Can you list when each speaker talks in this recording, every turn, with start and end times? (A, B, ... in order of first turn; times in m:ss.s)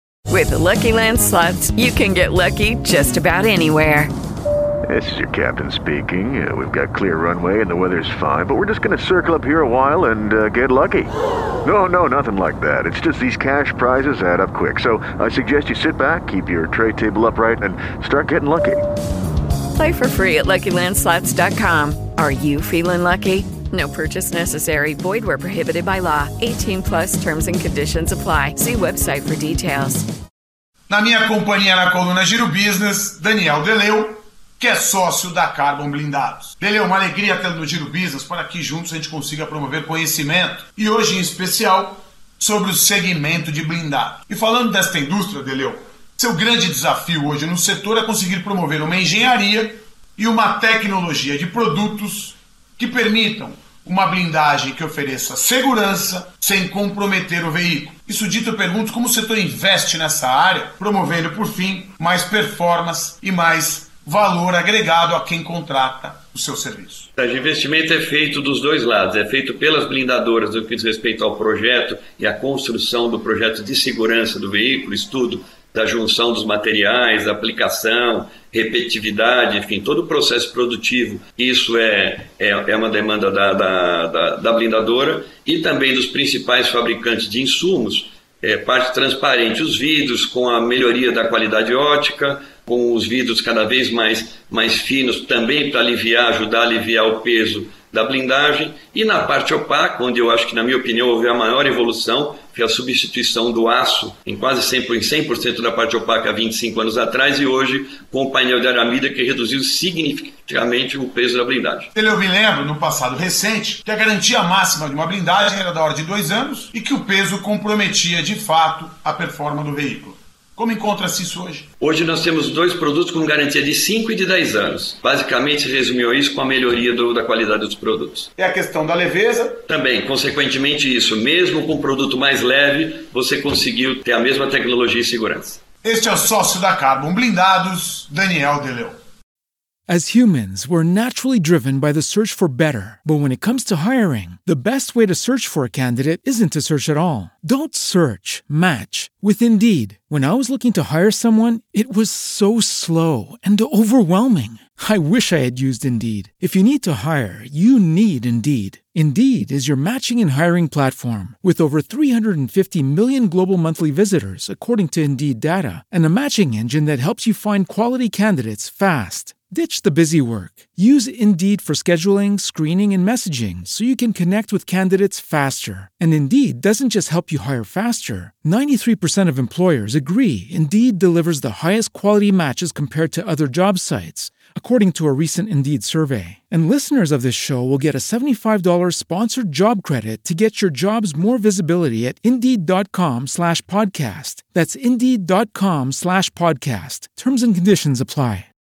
0:00.3-0:04.1 A
0:04.9-0:11.1 B
0:11.6-0:18.8 B
0:19.8-0:30.1 A
0:30.9-1:07.1 C
1:07.2-1:51.9 D
1:52.0-2:01.7 C
2:01.8-2:08.3 D
2:08.4-2:09.6 C
2:09.6-2:15.6 D
2:15.8-2:19.0 C
2:19.9-3:18.5 E